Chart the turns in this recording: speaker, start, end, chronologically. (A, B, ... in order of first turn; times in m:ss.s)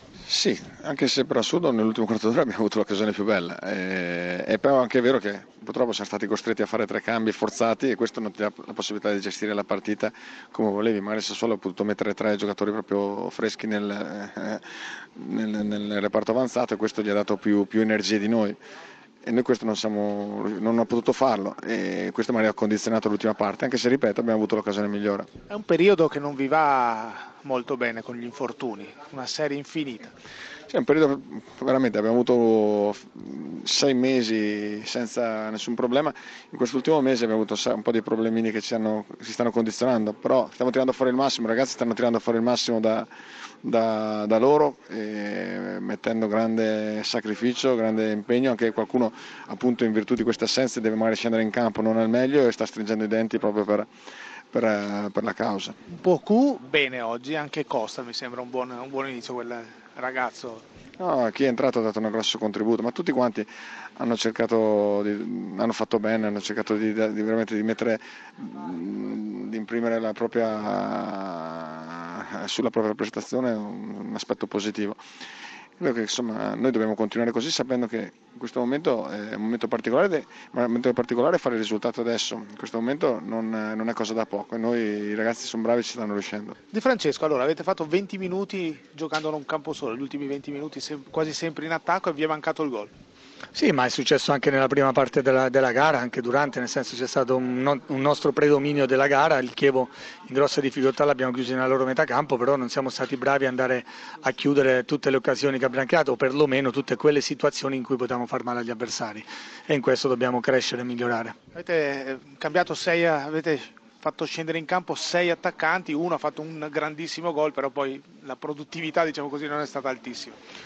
0:00.3-0:14.6 A
0:15.2-0:18.6 A
0:19.2-0:25.3 A
0:25.5-0:30.1 B
0:30.7-0:43.1 A
0:43.6-0:53.9 A
0:54.5-0:55.8 A
0:55.9-1:00.6 B
1:01.0-1:15.0 A
1:15.8-1:26.6 A
1:26.7-1:32.9 B
1:33.6-1:51.4 C
1:51.5-2:00.4 B